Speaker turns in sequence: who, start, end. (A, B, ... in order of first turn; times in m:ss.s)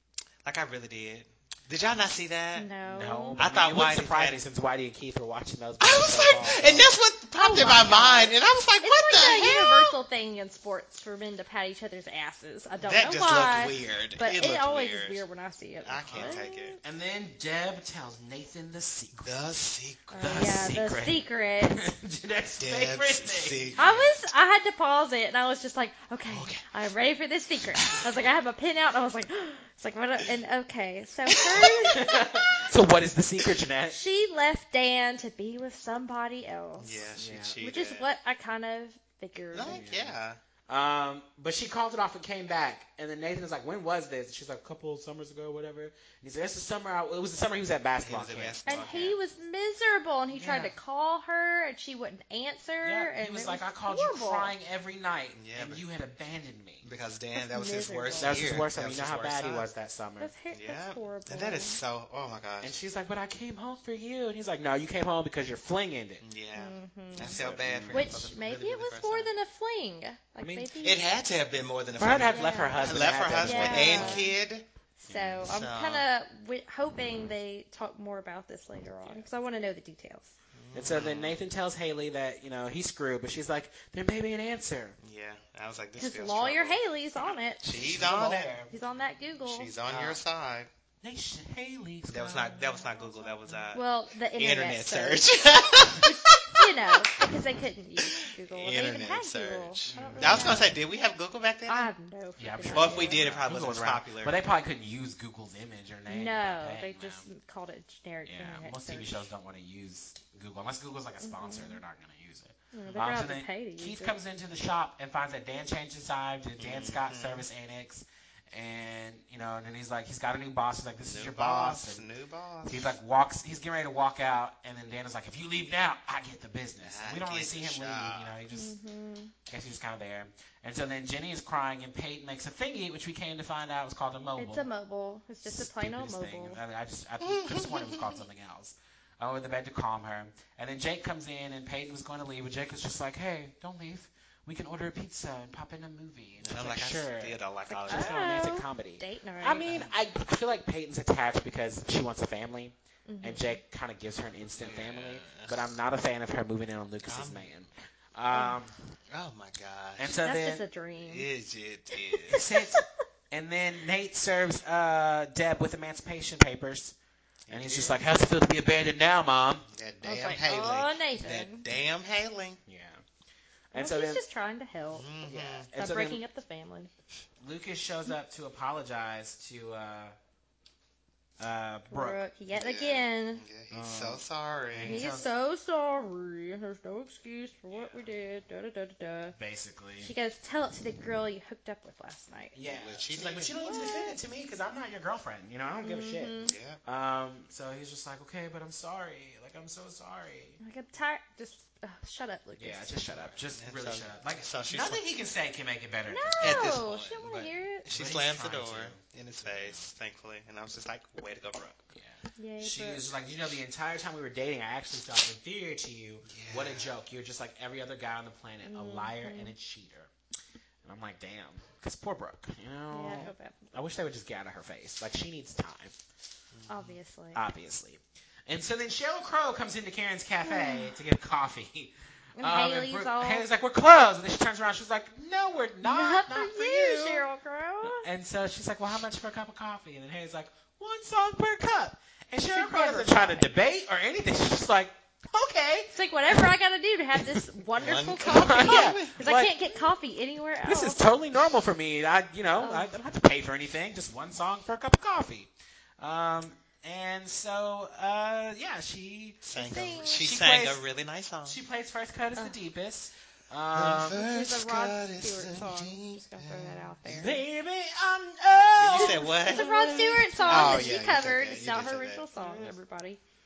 0:00.4-0:02.7 A
0:02.5-0:03.4 B
0:02.9-0:06.9 C
0:03.4-0:04.4 A
0:05.8-0:09.9 A
0:07.4-0:16.8 B
0:12.8-0:15.2 A
0:15.8-0:16.8 A
0:16.1-0:19.3 C
0:19.2-0:20.3 A
0:20.1-0:21.9 B
0:20.2-0:23.8 C
0:22.6-0:24.2 A
0:23.8-0:32.4 B
0:26.3-0:26.7 A
0:31.3-0:31.8 A
0:31.9-0:34.0 C
0:33.9-0:37.0 B
0:36.8-0:38.1 A
0:37.2-0:37.6 C
0:37.6-0:39.8 B
0:39.5-0:40.4 A
0:39.6-0:40.2 C
0:40.7-0:48.6 C
0:48.0-0:49.2 A
0:48.7-0:54.5 B
0:50.3-0:50.7 C
0:52.8-0:56.9 C
0:55.4-0:55.8 A
0:56.8-0:59.7 A
0:57.4-0:58.5 B
0:58.2-1:00.3 C
1:00.2-1:01.8 B
1:00.5-1:02.8 A
1:02.6-1:06.2 C
1:06.2-1:09.3 A
1:06.6-1:11.1 B
1:07.2-1:08.1 C
1:10.4-1:10.7 C
1:10.8-1:16.1 A
1:12.0-1:14.3 C
1:12.2-1:14.3 B
1:15.0-1:20.3 B
1:15.1-1:15.4 C
1:20.6-1:21.4 A
1:20.7-1:25.0 C
1:25.0-1:28.6 A
1:26.0-1:27.6 B
1:27.7-1:28.7 C
1:28.7-1:29.7 B
1:29.4-1:30.7 A
1:29.9-1:30.2 C
1:31.0-1:32.8 C
1:32.1-1:37.2 A
1:33.7-1:40.8 B
1:38.0-1:41.9 A
1:39.9-1:40.7 C
1:41.7-1:43.3 B
1:42.4-1:47.3 C
1:42.7-1:44.4 A
1:46.1-1:49.2 B
1:48.3-2:02.0 C
1:51.2-1:51.8 B
1:52.7-1:54.2 B
1:56.6-1:57.5 A
2:01.1-2:02.9 A
2:02.6-2:08.8 C
2:06.8-2:08.4 A
2:08.5-2:09.3 B
2:09.5-2:14.7 C
2:14.4-2:16.6 B
2:15.5-2:38.8 C
2:17.2-2:18.1 A
2:26.4-2:28.4 A
2:27.7-2:29.7 B
2:29.6-2:30.0 A
2:33.1-2:33.6 B
2:34.6-2:35.6 A
2:37.0-2:37.5 A
2:38.3-2:38.6 B
2:39.1-2:40.2 A
2:40.0-2:40.6 C
2:40.1-2:41.3 B
2:41.0-2:42.4 A
2:42.0-2:42.9 B
2:42.3-2:47.0 C
2:47.5-2:48.0 A
2:47.5-2:49.7 C
2:49.7-2:52.6 A
2:50.0-2:51.6 B
2:52.7-2:53.0 C
2:53.7-2:54.2 C
2:53.8-2:55.1 B
2:54.9-2:55.7 A
2:55.2-2:56.2 C
2:55.7-2:56.9 B
2:57.4-3:00.2 C
3:01.4-3:02.2 C
3:01.9-3:03.4 B
3:02.5-3:05.0 A
3:03.7-3:05.3 C
3:04.8-3:09.4 B
3:09.4-3:10.1 C
3:10.0-3:12.6 B
3:12.5-3:20.6 C
3:12.6-3:13.8 A
3:13.6-3:14.2 B
3:15.8-3:16.6 B
3:16.4-3:16.8 A
3:20.6-3:22.9 B
3:22.6-3:26.8 C
3:23.1-3:25.0 A
3:26.1-3:27.9 B
3:26.4-3:31.9 A
3:27.9-3:29.9 C
3:31.9-3:40.1 C
3:32.4-3:33.1 B
3:36.3-3:36.9 A
3:38.6-3:39.5 B
3:40.8-3:45.9 C
3:42.9-3:43.6 B
3:46.5-3:47.0 A
3:46.7-3:47.4 B
3:47.3-3:57.2 C
3:50.4-3:50.9 B
3:52.4-3:53.5 B
3:55.8-3:58.1 B
3:57.8-4:06.5 C
4:02.5-4:03.5 B
4:05.9-4:11.0 B
4:07.8-4:09.2 A
4:08.3-4:09.5 C
4:10.7-4:19.4 C
4:12.6-4:12.9 B
4:19.4-4:21.6 A
4:19.6-4:20.3 B
4:20.2-4:20.8 C
4:21.5-4:24.2 C
4:23.7-4:27.3 A
4:24.1-4:27.4 B
4:27.1-4:30.9 C
4:28.8-4:32.7 A
4:28.9-4:33.2 B
4:32.4-4:32.7 C